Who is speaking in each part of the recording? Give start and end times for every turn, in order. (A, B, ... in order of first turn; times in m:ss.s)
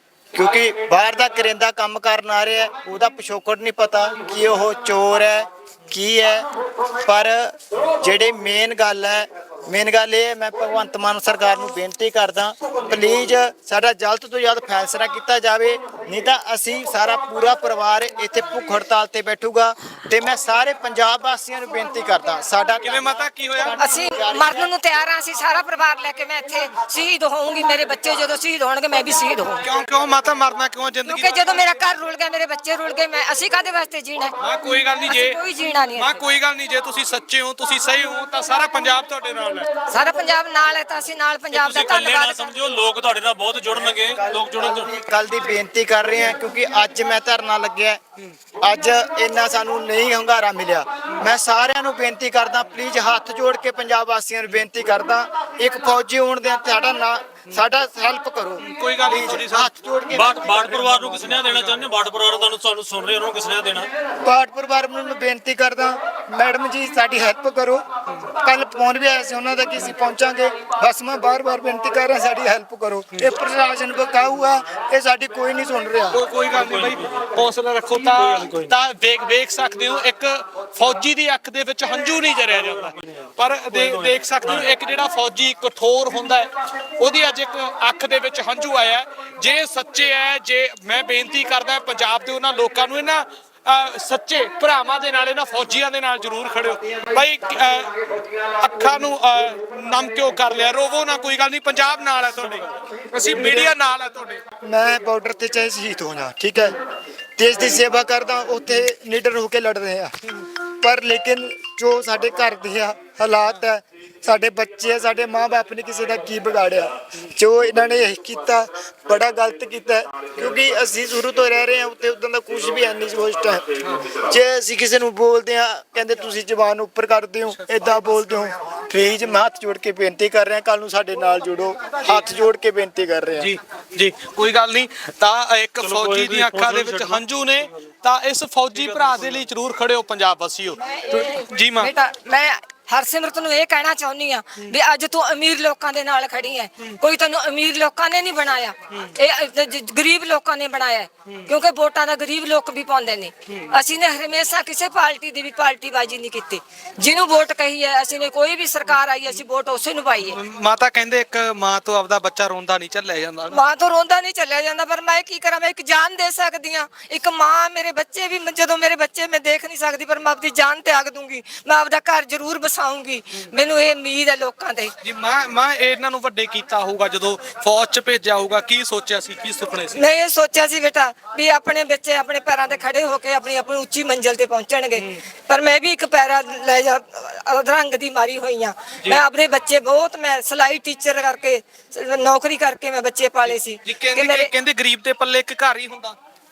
0:00.3-0:06.5 A
0:07.0-0:24.7 A
0:22.8-0:23.8 B
0:23.8-0:29.6 C
0:29.6-0:31.7 B
0:31.0-0:34.3 C
0:34.4-0:35.4 B
0:35.1-0:36.2 C
0:35.9-0:39.7 B
0:39.9-0:42.5 C
0:41.5-0:44.9 D
0:43.8-0:48.0 A
0:48.6-1:01.1 A
0:58.6-0:59.7 B
1:00.1-1:03.9 D
1:01.2-1:01.8 B
1:04.1-1:07.8 A
1:08.4-1:16.2 A
1:16.1-1:44.4 B
1:16.5-1:17.3 D
1:18.1-1:18.7 D
1:22.7-1:23.2 D
1:23.7-1:24.7 D
1:43.4-1:43.7 A
1:44.6-1:46.8 A
1:47.4-1:50.1 A
1:50.8-2:13.6 A
2:13.4-2:21.9 B
2:15.8-2:17.2 D
2:18.7-2:19.4 D
2:20.8-2:40.4 C
2:40.3-2:43.6 B
2:43.5-2:54.9 C
2:55.0-3:00.0 B
2:59.9-3:14.5 C
3:13.5-3:16.2 B